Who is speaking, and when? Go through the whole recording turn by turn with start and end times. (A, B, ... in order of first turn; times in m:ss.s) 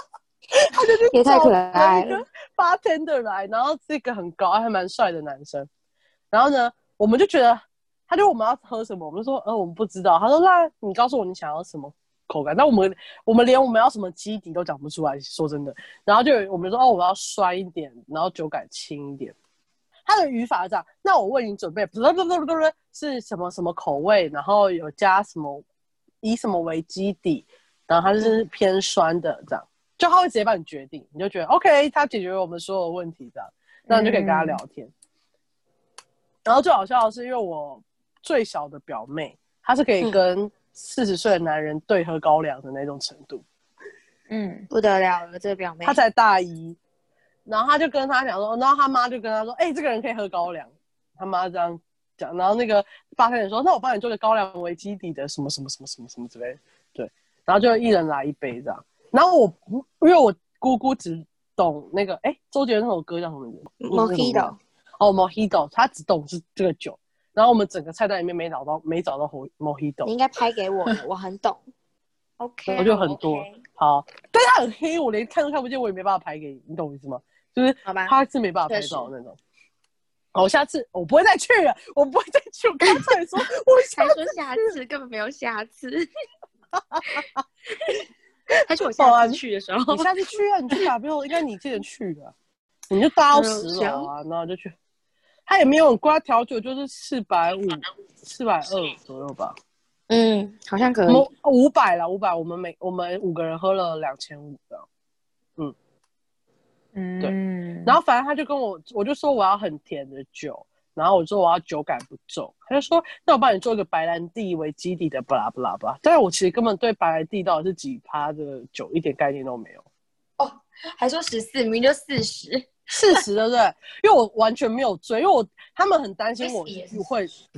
0:00.5-0:05.7 A
0:01.1-0:02.2 B
0:06.3-0:19.3 A
0:20.0-0:25.6 A
0:26.2-0:34.9 A
0:33.9-0:34.6 C
0:36.4-0:43.4 A
0:44.3-0:44.7 C
0:44.7-0:46.0 B
0:45.8-0:46.8 A
0:47.4-1:10.1 A
1:03.8-1:04.6 B
1:10.0-1:11.6 B
1:12.4-1:13.6 B
1:12.7-1:19.4 A
1:17.8-1:18.1 B
1:18.7-1:19.1 B
1:20.3-1:24.7 A
1:22.8-1:23.1 B
1:23.9-1:26.1 B
1:26.9-1:27.4 A
1:28.6-1:30.1 B
1:28.9-1:32.3 A
1:32.9-1:34.7 A
1:33.3-1:34.1 B
1:35.5-1:39.5 A
1:40.1-1:41.3 B
1:41.1-1:44.8 A
1:46.9-1:48.0 C
1:47.8-1:59.8 A
2:00.4-2:03.2 B
2:02.9-2:07.3 A
2:06.4-2:07.0 B